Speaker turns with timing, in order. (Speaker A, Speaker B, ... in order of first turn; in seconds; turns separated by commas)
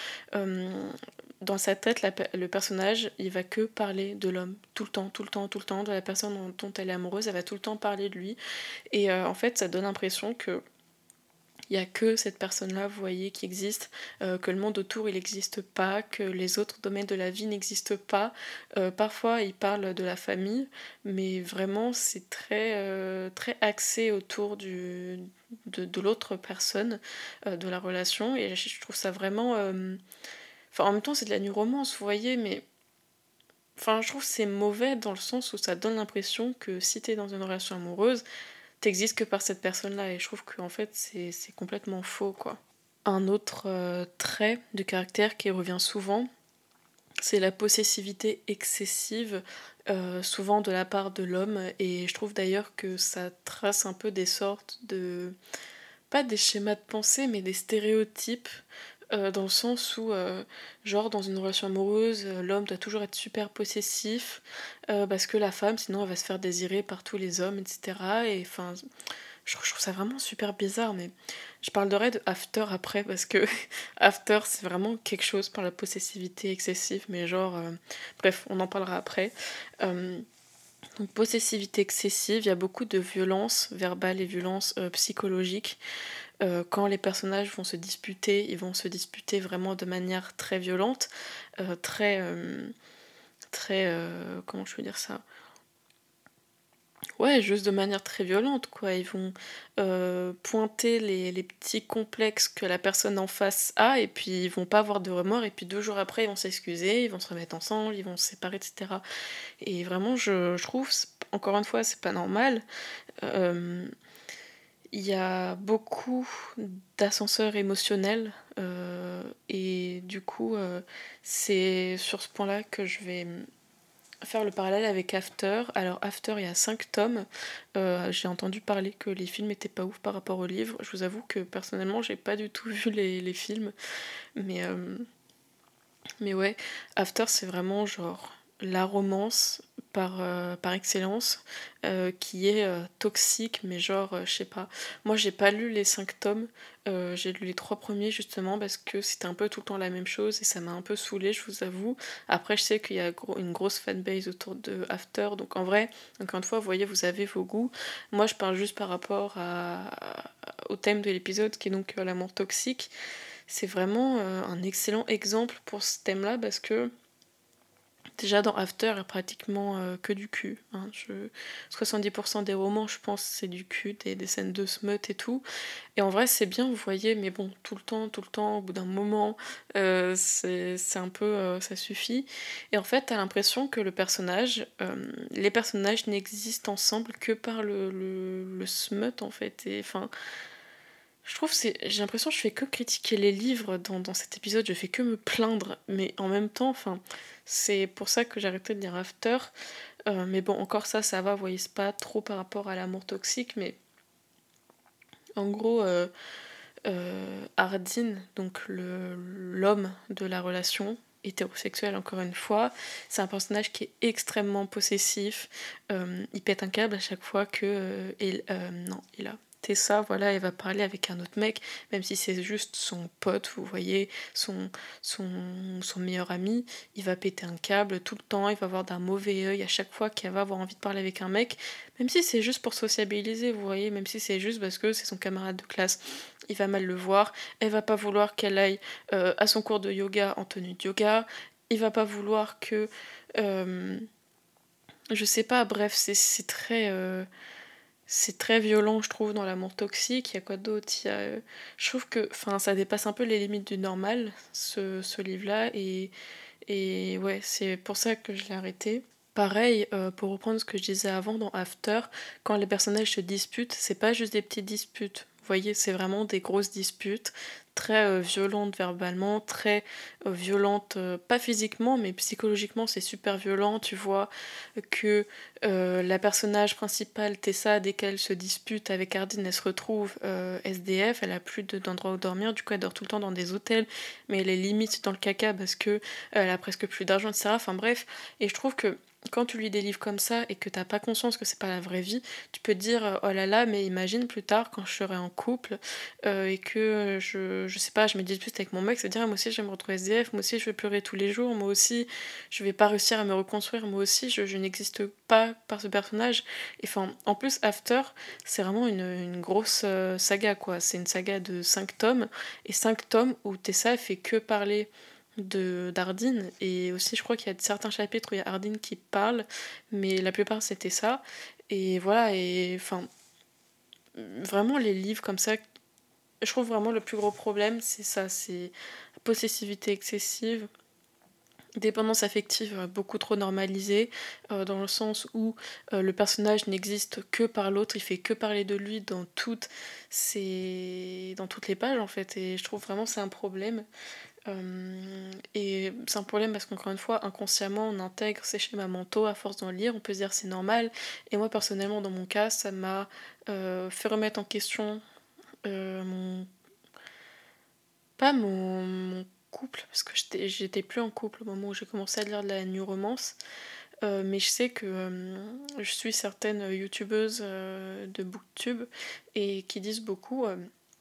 Speaker A: 0.3-8.4, Speaker A: 8.9-10.6, Speaker A: 11.7-30.0, Speaker A: 30.7-32.7, Speaker A: 33.8-38.2, Speaker A: 38.8-46.3, Speaker A: 47.2-55.4, Speaker A: 56.1-58.6, Speaker A: 59.1-68.8, Speaker A: 69.5-80.2, Speaker A: 81.0-85.8, Speaker A: 86.4-92.7, Speaker A: 93.5-95.2, Speaker A: 97.2-109.0, Speaker A: 109.6-112.6, Speaker A: 113.2-113.9, Speaker A: 114.9-123.5, Speaker A: 124.2-133.7, Speaker A: 134.4-135.1, Speaker A: 136.2-162.9, Speaker A: 163.5-166.9, Speaker A: 168.2-175.4, Speaker A: 176.0-190.1, Speaker A: 191.2-199.5, Speaker A: 200.1-203.8, Speaker A: 205.4-206.1, Speaker A: 206.9-244.1, Speaker A: 245.1-247.3, Speaker A: 248.1-256.1, Speaker A: 256.7-323.1, Speaker A: 324.1-325.6, Speaker A: 326.4-330.7, Speaker A: 331.8-343.9, Speaker A: 344.5-355.0, Speaker A: 355.6-356.5, Speaker A: 358.2-363.4, Speaker A: 364.0-370.6